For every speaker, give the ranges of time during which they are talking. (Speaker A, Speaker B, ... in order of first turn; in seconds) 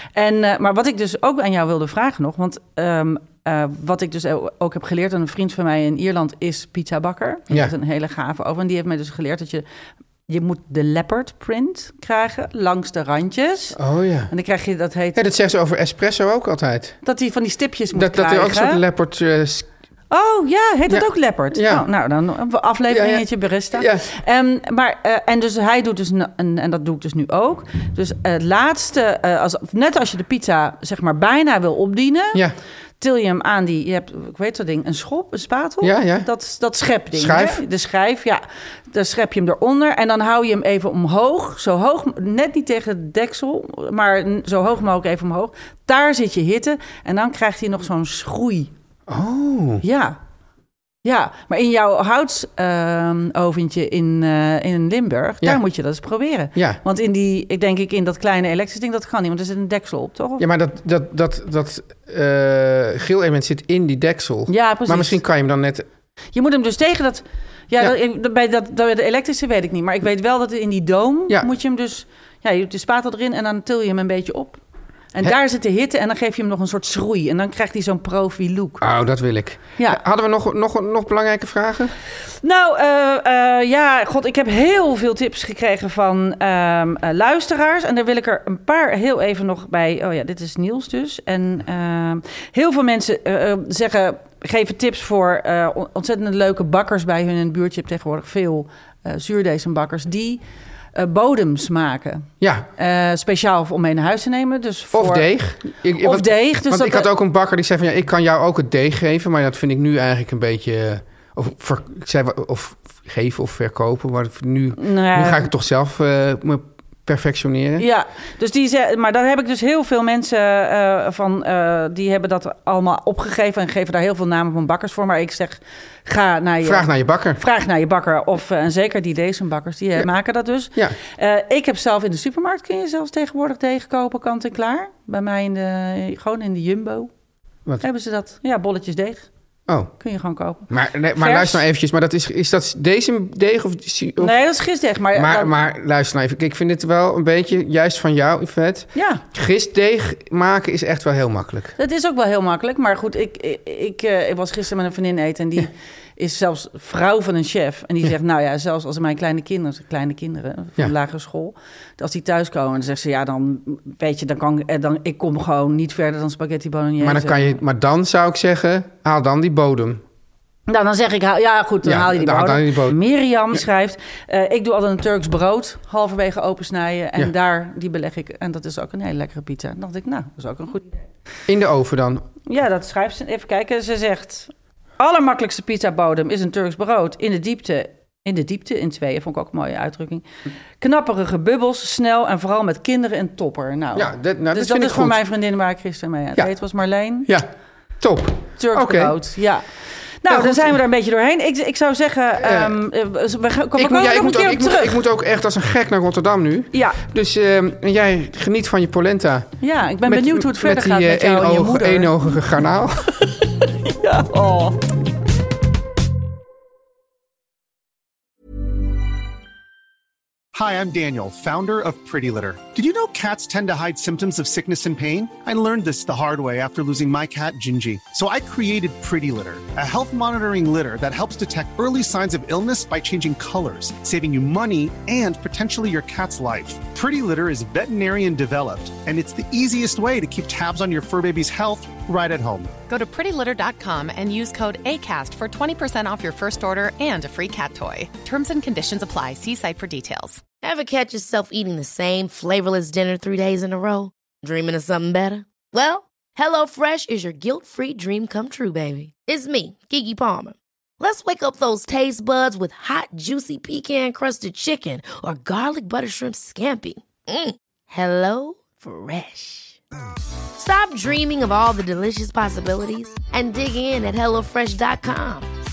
Speaker A: 0.1-9.6, 10.3-13.8, 14.3-15.2, 17.0-18.8, 20.1-32.4, 33.0-48.7, 49.8-50.2, 51.0-60.4, 64.5-65.2, 66.3-74.6, 75.1-78.8, 82.4-100.4, 100.9-105.3, 106.0-107.1, 114.8-115.5, 117.8-137.1, 137.8-139.3, 140.0-141.6, 144.2-145.5, 148.9-149.2, 151.8-167.6, 170.7-181.0, 182.4-190.2, 190.8-197.3, 198.6-199.7, 200.2-205.0, 206.7-207.0, 209.6-212.1, 213.8-214.8
Speaker B: 13.8-14.3, 15.1-17.0, 17.9-19.7, 20.9-21.9, 22.9-24.0, 35.8-36.3, 37.1-37.6, 49.1-49.8, 56.5-56.8, 60.4-65.8, 78.8-81.9, 102.4-102.7, 104.9-117.8, 126.6-127.4, 140.7-144.3, 145.1-151.7, 167.0-170.0, 171.8-173.0, 181.5-182.2, 193.9-195.2, 198.0-199.2, 200.3-200.8, 202.4-202.8, 203.8-213.3
Speaker C: 220.5-242.7
Speaker D: 242.9-250.4
Speaker E: 250.6-269.8, 270.6-275.5